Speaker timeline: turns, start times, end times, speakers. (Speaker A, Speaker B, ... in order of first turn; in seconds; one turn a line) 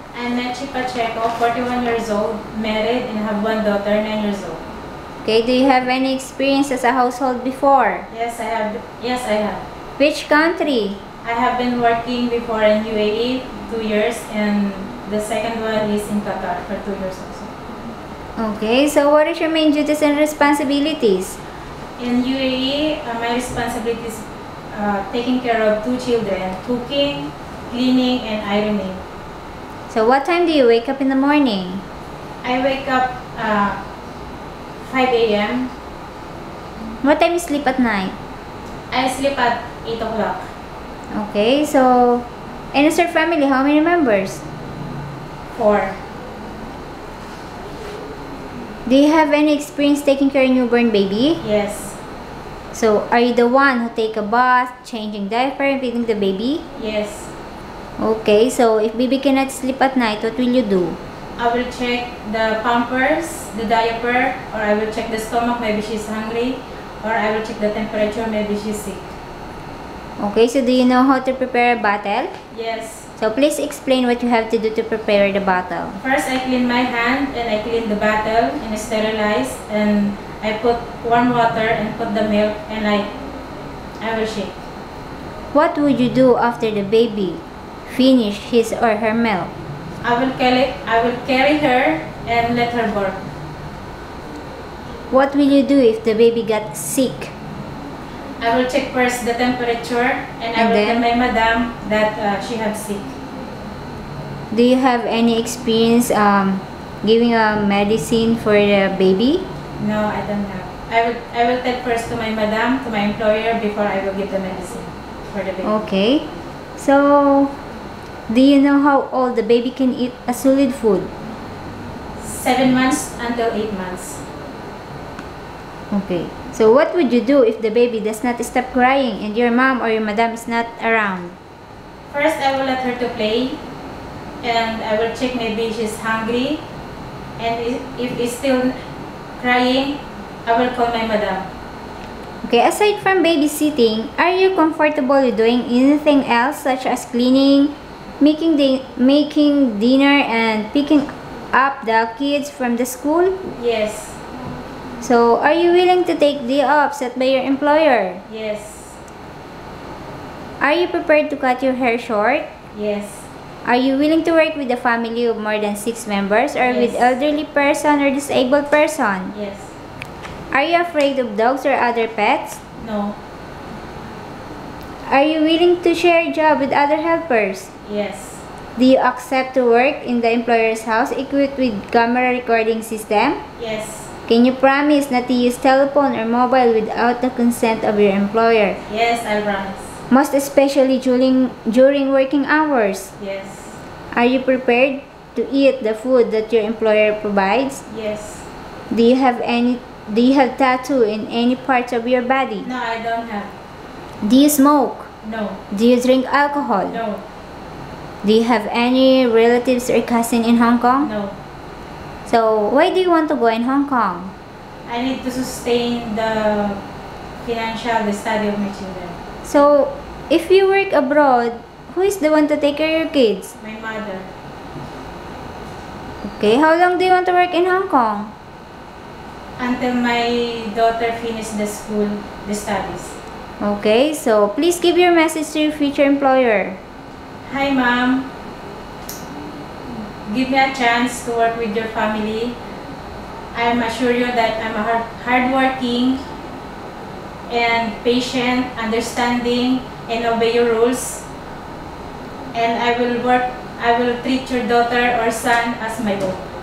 Speaker A: 0.1-4.6
Speaker B: 5.2-8.1
Speaker A: 8.1-9.6
Speaker B: 10.0-11.0
Speaker A: 11.2-17.5
Speaker B: 18.4-21.4
Speaker A: 22.0-29.0
Speaker B: 29.9-31.8
Speaker A: 32.4-33.8
Speaker A: 34.8-35.7
Speaker B: 37.0-38.1
Speaker A: 38.9-40.5
Speaker B: 41.1-44.4
Speaker A: 45.5-46.0
Speaker B: 48.9-51.4
Speaker A: 51.4-52.0
Speaker B: 52.7-56.6
Speaker A: 56.8-57.3
Speaker B: 58.0-61.0
Speaker A: 61.4-69.1
Speaker B: 70.2-72.4
Speaker A: 72.5-73.1
Speaker B: 73.2-76.0
Speaker A: 76.0-83.1
Speaker A: 84.0-84.5
Speaker B: 85.5-89.5
Speaker A: 90.0-93.2
Speaker B: 95.1-97.3
Speaker A: 98.4-103.1
Speaker B: 100.6-101.0
Speaker B: 104.5-109.4
Speaker A: 109.8-115.7
Speaker B: 115.6-116.2
Speaker B: 116.8-117.5
Speaker B: 118.3-121.1
Speaker A: 122.2-124.2
Speaker B: 125.9-131.4
Speaker A: 132.1-133.6
Speaker A: 134.4-136.6
Speaker A: 137.4-138.8
Speaker A: 139.4-141.5
Speaker B: 142.4-153.4
Speaker A: 153.5-154.2
Speaker B: 155.0-158.2
Speaker A: 158.3-159.0
Speaker B: 160.6-162.5
Speaker A: 162.7-163.2
Speaker B: 163.6-169.3
Speaker A: 166.6-167.0
Speaker A: 169.3-169.7
Speaker B: 170.5-172.6
Speaker A: 172.8-173.2
Speaker B: 175.0-177.7
Speaker A: 177.8-178.4
Speaker B: 178.8-183.4
Speaker A: 183.6-184.1
Speaker B: 184.3-188.8
Speaker A: 188.8-190.0
Speaker B: 190.1-193.1
Speaker A: 193.2-193.8
Speaker B: 194.1-197.8
Speaker A: 197.9-198.4
Speaker B: 198.9-202.7
Speaker A: 202.6-203.5
Speaker B: 204.2-205.1
Speaker A: 205.2-205.6
Speaker B: 205.7-207.0
Speaker A: 206.9-207.2
Speaker B: 208.2-211.1
Speaker A: 211.0-211.3
Speaker B: 212.2-214.3
Speaker A: 214.8-216.8
Speaker A: 217.4-219.2
Speaker B: 219.4-223.5
Speaker A: 223.6-224.3
Speaker B: 226.2-228.3
Speaker A: 229.6-233.2
Speaker B: 233.6-236.8
Speaker A: 237.4-238.3
Speaker A: 240.2-242.6
Speaker A: 243.5-246.2
Speaker A: 247.5-251.2
Speaker A: 252.5-256.4